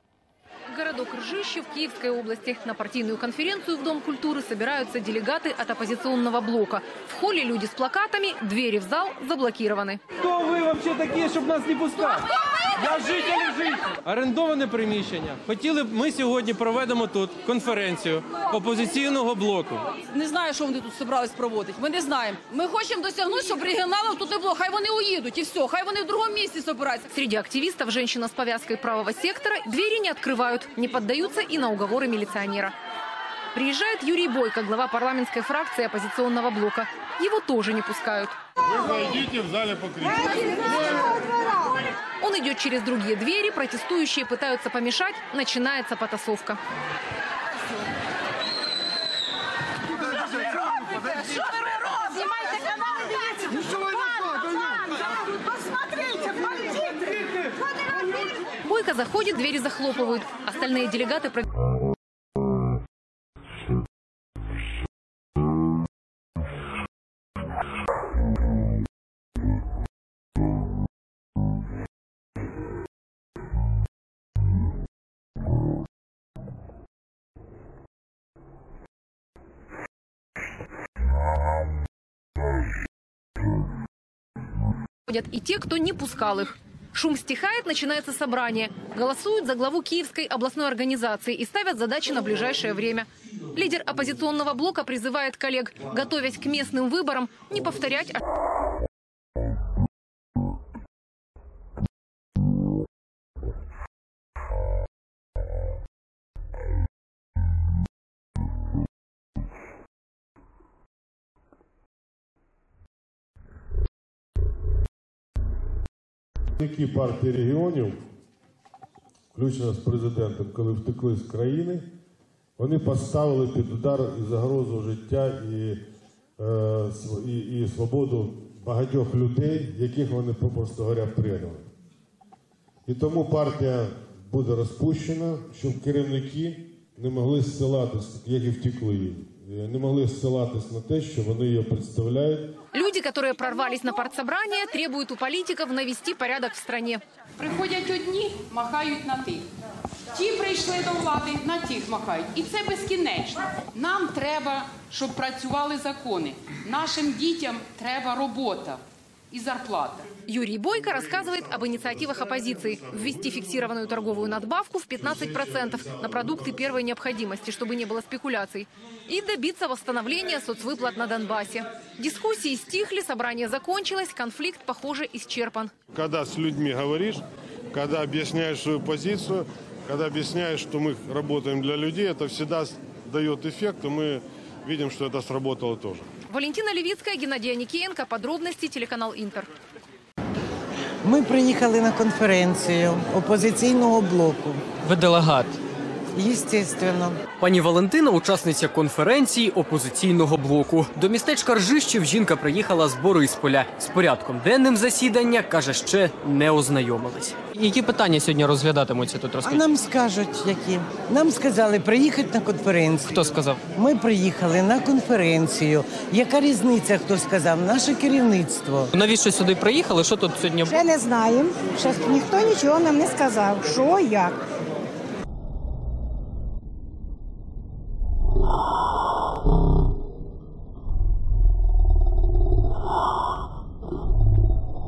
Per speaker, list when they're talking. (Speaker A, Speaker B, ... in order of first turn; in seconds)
Speaker A: 0.7-10.0, 27.1-32.7, 33.5-38.4, 42.2-46.6, 58.6-61.5, 85.1-98.2, 142.7-147.0, 160.2-175.7, 186.3-189.5
Speaker B: 10.2-12.2, 12.8-19.8
Speaker C: 19.9-27.1
Speaker D: 38.6-41.2, 116.6-118.0, 119.3-121.9, 122.6-125.8, 126.4-131.7, 132.9-142.5, 175.9-186.1
Speaker E: 147.4-149.5, 150.1-160.1
Speaker F: 191.0-194.6, 196.2-197.2, 209.4-213.1, 213.7-218.9
Speaker G: 194.8-195.6, 197.4-209.7, 213.1-213.6, 218.9-220.8
Speaker H: 220.7-224.4